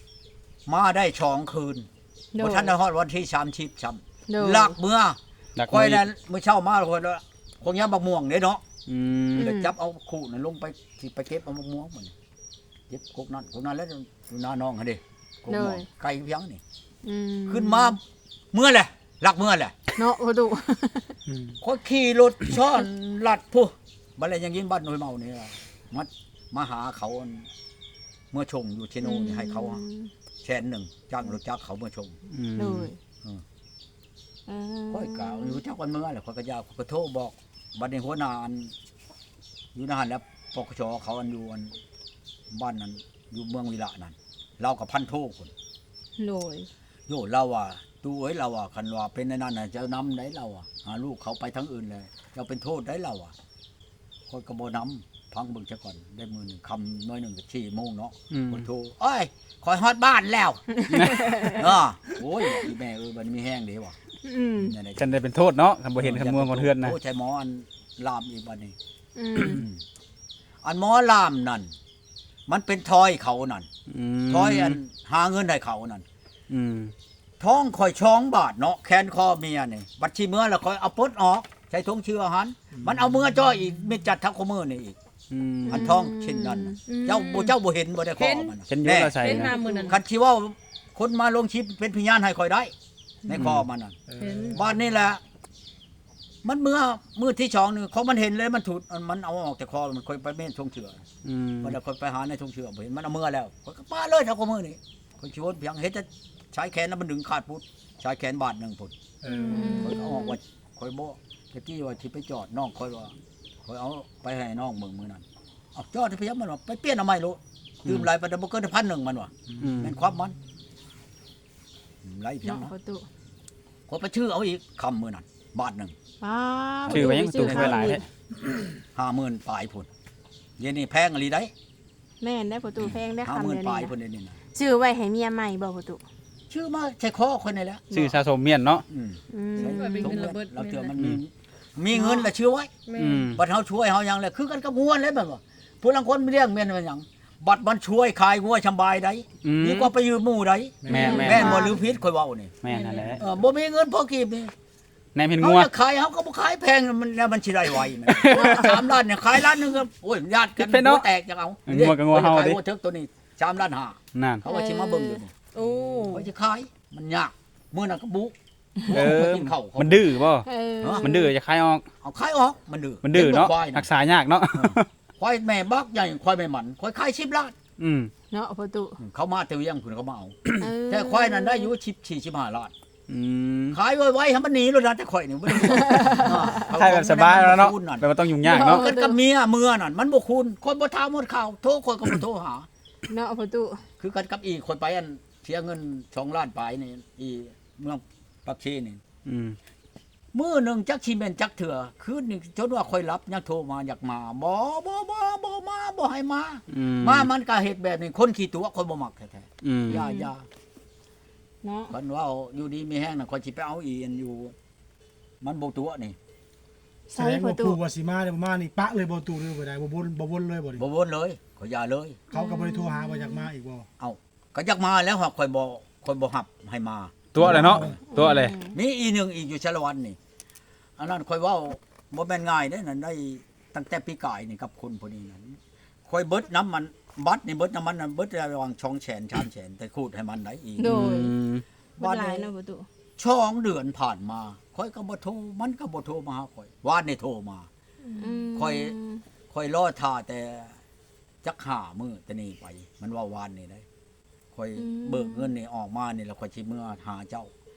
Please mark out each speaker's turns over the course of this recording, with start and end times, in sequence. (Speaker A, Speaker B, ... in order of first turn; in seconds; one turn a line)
Speaker A: 0.7-1.9
Speaker B: 2.3-2.8
Speaker A: 2.4-8.6
Speaker B: 4.3-4.8
Speaker C: 5.6-6.0
Speaker C: 8.9-9.5
Speaker B: 9.4-9.7
Speaker A: 9.4-12.1
Speaker A: 12.9-16.6
Speaker B: 15.5-15.9
Speaker B: 17.1-18.0
Speaker A: 17.5-18.0
Speaker A: 18.5-19.8
Speaker B: 20.0-21.2
Speaker A: 21.6-27.5
Speaker A: 28.3-29.8
Speaker B: 29.0-30.1
Speaker A: 30.4-32.1
Speaker C: 32.3-32.9
Speaker B: 32.5-33.0
Speaker B: 34.5-35.6
Speaker A: 34.9-38.7
Speaker A: 39.7-41.7
Speaker A: 42.5-45.5
Speaker B: 46.2-46.7
Speaker A: 47.1-53.3
Speaker A: 54.3-64.0
Speaker C: 58.3-58.7
Speaker B: 60.7-61.7
Speaker C: 60.9-61.2
Speaker B: 64.2-64.7
Speaker A: 64.6-65.1
Speaker C: 65.0-66.9
Speaker A: 66.0-68.7
Speaker B: 69.2-69.6
Speaker A: 69.4-69.8
Speaker A: 70.6-71.7
Speaker A: 72.5-73.7
Speaker C: 73.9-74.8
Speaker A: 74.3-76.0
Speaker C: 76.5-76.9
Speaker A: 77.4-85.0
Speaker C: 85.3-85.9
Speaker A: 85.7-89.3
Speaker B: 85.7-86.8
Speaker D: 86.9-87.6
Speaker D: 88.2-88.6
Speaker C: 88.7-89.6
Speaker D: 89.2-90.0
Speaker B: 89.3-90.0
Speaker A: 89.8-92.7
Speaker A: 93.2-94.0
Speaker C: 93.3-93.7
Speaker E: 94.1-94.6
Speaker D: 94.2-94.7
Speaker A: 94.5-95.2
Speaker A: 96.4-101.0
Speaker C: 101.2-101.8
Speaker A: 101.6-108.9
Speaker E: 109.2-109.8
Speaker B: 109.3-110.4
Speaker A: 109.5-113.1
Speaker A: 113.7-115.2
Speaker A: 115.8-120.4
Speaker C: 119.6-119.9
Speaker A: 122.0-122.7
Speaker B: 122.4-123.1
Speaker A: 123.9-125.9
Speaker B: 126.2-128.0
Speaker A: 126.8-128.0
Speaker C: 126.9-128.0
Speaker A: 128.9-129.9
Speaker A: 130.6-131.5
Speaker B: 132.2-133.9
Speaker A: 132.8-134.4
Speaker B: 134.5-136.0
Speaker A: 136.5-137.9
Speaker B: 137.9-138.2
Speaker C: 137.9-138.8
Speaker A: 138.9-142.7
Speaker B: 139.3-140.2
Speaker D: 139.6-141.0
Speaker B: 141.9-142.3
Speaker D: 142.9-143.3
Speaker C: 143.0-143.4
Speaker A: 143.4-152.5
Speaker C: 149.4-149.9
Speaker E: 150.8-151.4
Speaker B: 150.9-151.8
Speaker C: 150.9-151.7
Speaker C: 152.6-153.2
Speaker D: 152.7-153.2
Speaker A: 153.2-154.5
Speaker C: 155.2-155.7
Speaker A: 155.4-165.3
Speaker C: 158.1-158.8
Speaker B: 158.3-158.8
Speaker C: 160.6-161.1
Speaker C: 161.7-162.6
Speaker C: 164.2-164.4
Speaker B: 164.5-165.2
Speaker D: 165.5-166.3
Speaker A: 166.1-168.3
Speaker A: 168.9-170.1
Speaker C: 168.9-171.9
Speaker B: 170.4-171.3
Speaker A: 170.8-171.1
Speaker A: 172.0-173.9
Speaker C: 173.0-174.9
Speaker A: 174.5-177.6
Speaker C: 177.8-178.1
Speaker B: 178.3-179.0
Speaker A: 179.0-182.7
Speaker B: 180.6-181.7
Speaker C: 183.1-183.8
Speaker A: 183.7-188.1
Speaker B: 185.6-186.7
Speaker C: 186.7-188.8
Speaker B: 188.4-189.2
Speaker A: 188.6-192.7
Speaker B: 193.1-193.8
Speaker A: 194.0-199.0
Speaker C: 199.2-199.6
Speaker A: 200.3-210.5
Speaker C: 206.7-207.3
Speaker C: 209.6-210.0
Speaker B: 209.9-210.3
Speaker B: 211.6-211.9
Speaker A: 211.9-214.5
Speaker A: 215.4-216.2
Speaker B: 217.1-217.8
Speaker E: 217.2-220.8
Speaker A: 220.8-222.2
Speaker B: 222.3-223.5
Speaker E: 222.4-223.9
Speaker A: 224.0-227.9
Speaker C: 227.3-228.5
Speaker E: 227.4-228.0
Speaker B: 227.8-228.8
Speaker A: 228.7-230.2
Speaker A: 231.0-241.1
Speaker B: 240.8-241.3
Speaker C: 240.8-241.6
Speaker A: 242.0-242.5
Speaker B: 242.0-242.9
Speaker A: 243.2-247.7
Speaker D: 248.1-248.3
Speaker B: 248.2-249.2
Speaker A: 248.6-249.0
Speaker A: 249.5-250.8
Speaker A: 251.4-253.8
Speaker A: 254.5-257.5
Speaker B: 254.8-255.5